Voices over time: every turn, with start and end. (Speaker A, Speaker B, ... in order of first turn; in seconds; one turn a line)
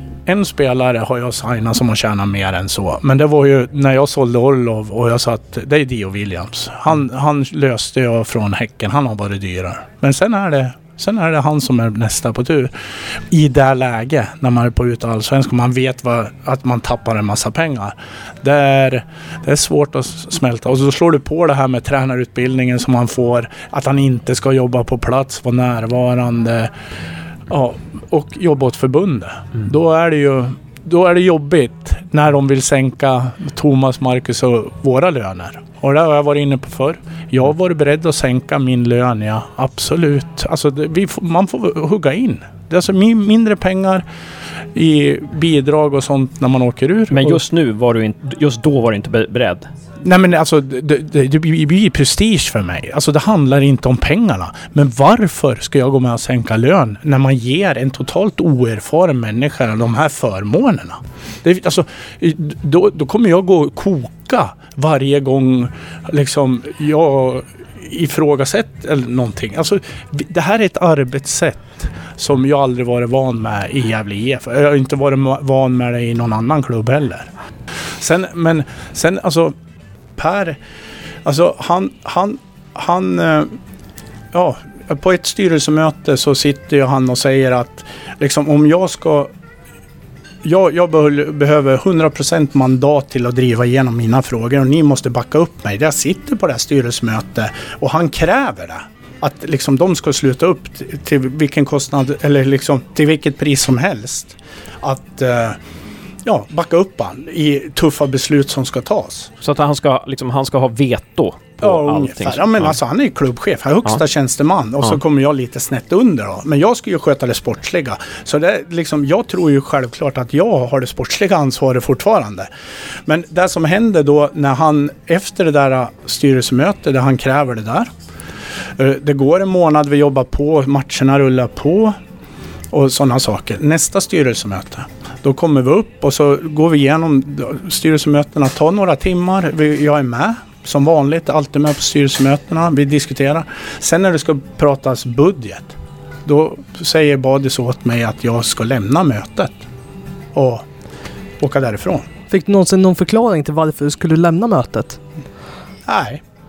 Speaker A: 0.2-26.7
Speaker A: 27.5-44.0
Speaker A: 44.7-47.4
Speaker B: 47.1-49.7
Speaker A: 50.0-77.3
Speaker A: 78.0-79.5
Speaker A: 80.2-80.6
Speaker A: 81.2-83.5
Speaker A: 84.3-89.3
Speaker A: 90.4-105.6
Speaker A: 106.2-109.3
Speaker B: 109.4-112.7
Speaker A: 111.6-122.5
Speaker A: 123.0-127.9
Speaker A: 128.8-131.9
Speaker A: 132.7-149.6
Speaker A: 150.3-150.7
Speaker A: 151.4-152.1
Speaker C: 152.3-155.0
Speaker A: 155.8-156.2